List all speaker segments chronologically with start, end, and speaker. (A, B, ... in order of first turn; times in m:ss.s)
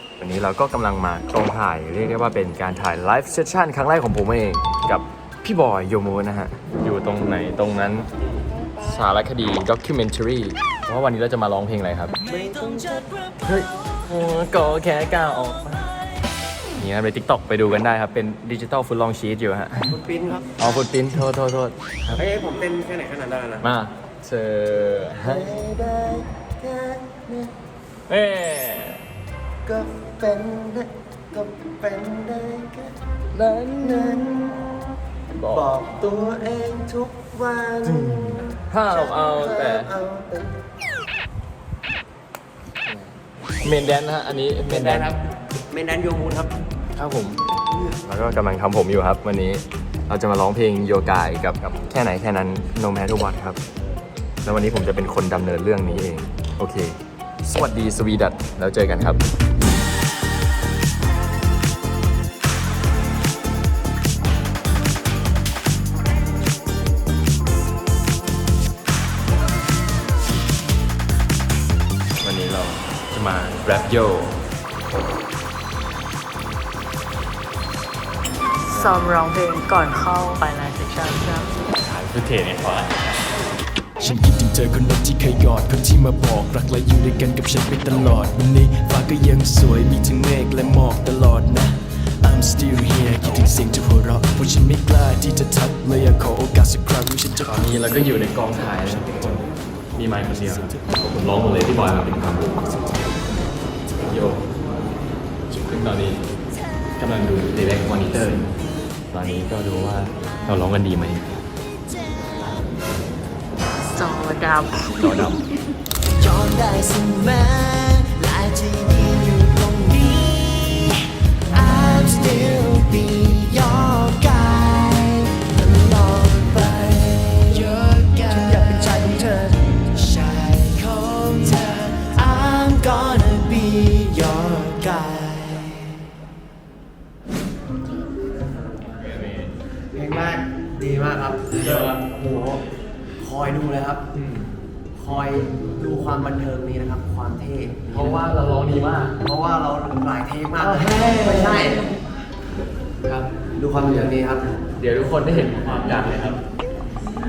0:00.2-0:08.1 A
0:08.8-0:12.2 A
0:12.2-0:13.1 B
0:13.4-0:15.9 A
0:16.8-0:20.0 A
0:19.9-0:20.5 B
0:20.6-0:22.2 A
0:22.2-0:23.7 B
0:23.6-0:25.5 A
0:25.2-0:27.5 B
0:28.1-0:29.0 A
0:29.7-0:33.0 B
0:33.3-0:34.6 A
0:35.3-0:35.7 A
0:35.5-0:38.3 B
0:37.8-0:39.9 A
0:38.9-0:40.6 B
0:43.6-0:45.2 A
0:44.7-0:45.2 B
0:45.7-0:46.5 B
0:47.0-0:47.4 A
0:48.0-0:53.6 A
0:54.4-0:59.2 A
1:12.2-1:14.4 A
1:18.6-1:21.6 C
1:18.7-1:19.0 A
1:21.8-1:23.0 A
1:24.0-1:37.5 D
1:37.5-1:42.7 A
1:44.0-1:44.4 A
1:45.5-1:46.2 A
1:47.0-1:48.5 A
1:49.1-1:51.3 A
1:53.9-1:55.3 C
1:54.9-1:55.4 A
1:56.1-2:16.0 E
2:19.0-2:19.5 A
2:19.9-2:22.6 B
2:21.5-2:22.0 A
2:23.2-2:24.0 B
2:24.2-2:24.5 A
2:25.0-2:28.2 B
2:27.9-2:29.2 A
2:29.2-2:31.8 B
2:30.6-2:31.9 A
2:33.0-2:33.3 A
2:33.6-2:34.5 B
2:33.8-2:34.1 A
2:34.8-2:36.4 A